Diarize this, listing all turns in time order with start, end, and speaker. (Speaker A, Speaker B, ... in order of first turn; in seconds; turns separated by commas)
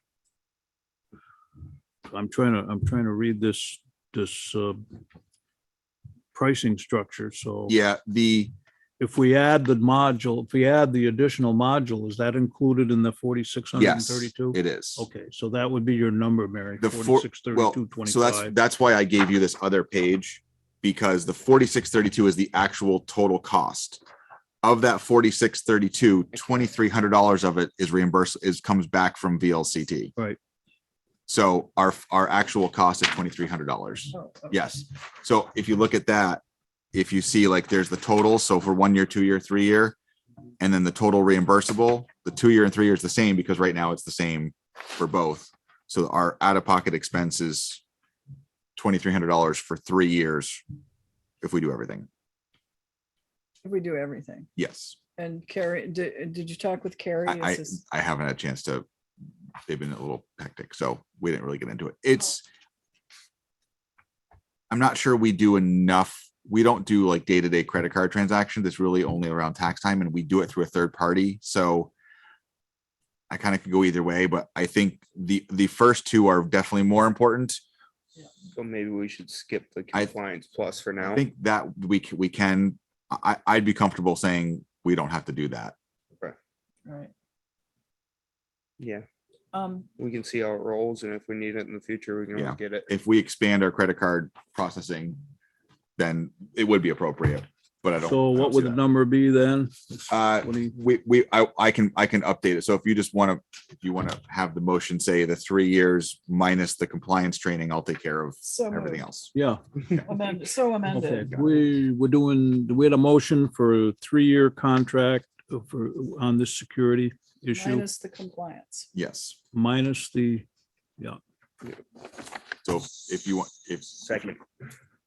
Speaker A: 2.1-4.8, Speaker A: 6.3-7.8, Speaker B: 7.7-8.5, Speaker A: 9.0-18.5, Speaker B: 13.8-15.1, Speaker B: 16.8-24.0, Speaker B: 24.6-30.1, Speaker B: 31.3-36.4, Speaker C: 34.2-34.5, Speaker B: 36.9-40.0, Speaker B: 40.6-47.8, Speaker B: 48.8-50.6, Speaker B: 51.4-52.1, Speaker C: 53.6-54.5, Speaker B: 54.5-55.0, Speaker C: 55.2-57.8, Speaker B: 57.3-58.8, Speaker B: 59.6-62.4, Speaker B: 64.7-71.9, Speaker B: 73.3-77.6, Speaker D: 78.5-81.2, Speaker B: 81.0-85.7, Speaker D: 88.8-89.0, Speaker C: 89.5-89.9, Speaker D: 90.0-92.9, Speaker B: 92.3-95.2, Speaker B: 96.0-98.8, Speaker A: 98.0-100.7, Speaker B: 100.1-109.3, Speaker C: 108.4-109.0, Speaker A: 109.3-109.6, Speaker C: 110.0-111.3, Speaker A: 110.8-117.8, Speaker C: 117.5-118.9, Speaker B: 118.9-119.4, Speaker A: 119.5-120.5, Speaker B: 122.6-124.4